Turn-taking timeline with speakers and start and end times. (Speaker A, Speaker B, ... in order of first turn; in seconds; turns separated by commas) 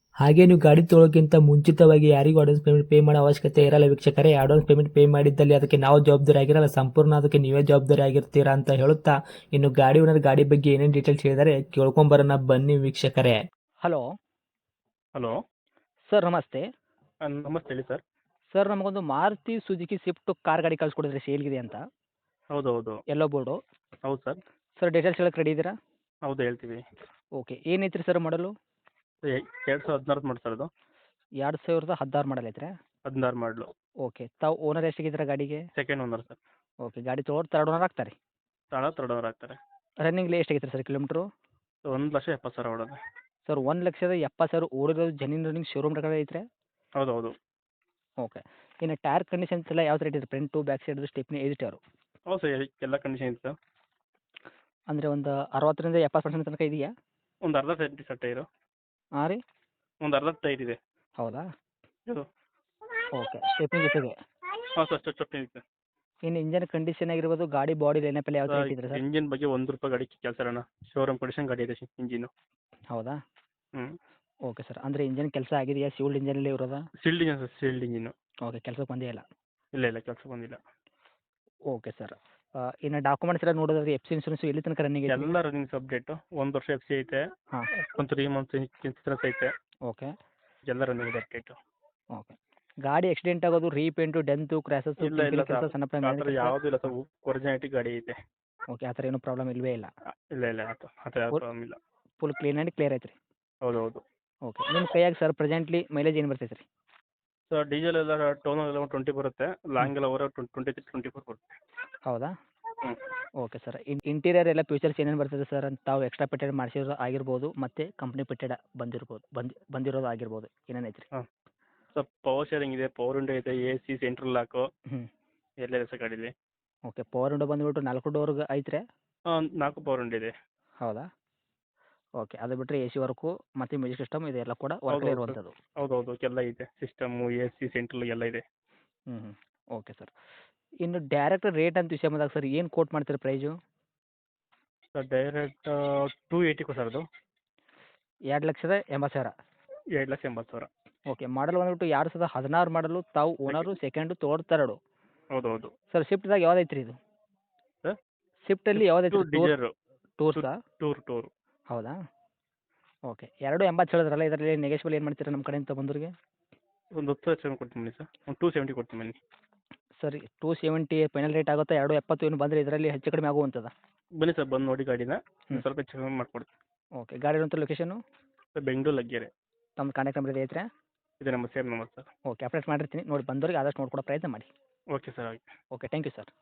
Speaker A: 0.2-13.4, Speaker B: 16.1-16.6, Speaker C: 17.2-18.0, Speaker B: 18.5-21.8, Speaker C: 22.5-23.0, Speaker B: 23.1-23.6, Speaker C: 24.1-24.4, Speaker B: 24.8-25.7, Speaker C: 26.3-26.8, Speaker B: 27.4-28.5, Speaker C: 29.2-30.7, Speaker B: 31.4-32.7, Speaker C: 33.1-33.7, Speaker B: 34.0-35.7, Speaker C: 35.8-36.4, Speaker B: 36.8-38.1, Speaker C: 38.7-39.6, Speaker B: 40.0-41.2, Speaker C: 41.9-43.0, Speaker B: 43.5-46.4, Speaker C: 47.0-47.3, Speaker B: 48.2-51.8, Speaker C: 52.3-53.5, Speaker B: 54.9-56.9, Speaker C: 57.5-58.5, Speaker C: 60.0-60.8, Speaker B: 61.2-61.5, Speaker B: 63.1-64.2, Speaker C: 64.8-65.6, Speaker B: 66.2-69.0, Speaker C: 68.5-72.3, Speaker B: 72.9-73.2, Speaker B: 74.5-76.9, Speaker C: 77.0-78.1, Speaker B: 78.5-79.2, Speaker C: 79.8-80.6, Speaker B: 81.7-85.3, Speaker C: 85.1-87.2, Speaker C: 88.0-89.5, Speaker C: 90.7-91.6, Speaker B: 92.1-96.9, Speaker C: 95.0-98.2, Speaker B: 98.7-99.9, Speaker C: 100.3-101.8, Speaker B: 102.2-103.1, Speaker C: 103.6-104.0, Speaker B: 104.5-106.6, Speaker C: 107.5-111.6, Speaker B: 113.4-121.1, Speaker C: 121.9-124.6, Speaker C: 125.6-126.3, Speaker B: 126.9-128.8, Speaker C: 129.3-130.3, Speaker B: 132.2-135.6, Speaker C: 134.9-138.4, Speaker B: 139.1-140.1, Speaker B: 140.8-143.5, Speaker C: 144.9-147.0, Speaker B: 148.3-149.3, Speaker C: 149.9-150.7, Speaker B: 151.1-154.8, Speaker C: 153.5-153.7, Speaker C: 155.3-155.7, Speaker B: 155.9-157.0, Speaker B: 158.4-159.5, Speaker C: 158.7-159.7, Speaker B: 160.2-160.6, Speaker C: 160.3-161.3, Speaker B: 163.1-166.1, Speaker C: 167.0-169.2, Speaker B: 170.0-173.7, Speaker C: 174.2-176.5, Speaker B: 177.0-178.0, Speaker C: 178.6-179.3, Speaker B: 179.8-180.6, Speaker C: 181.2-182.1, Speaker B: 182.3-184.5, Speaker C: 184.9-185.5, Speaker B: 185.7-186.3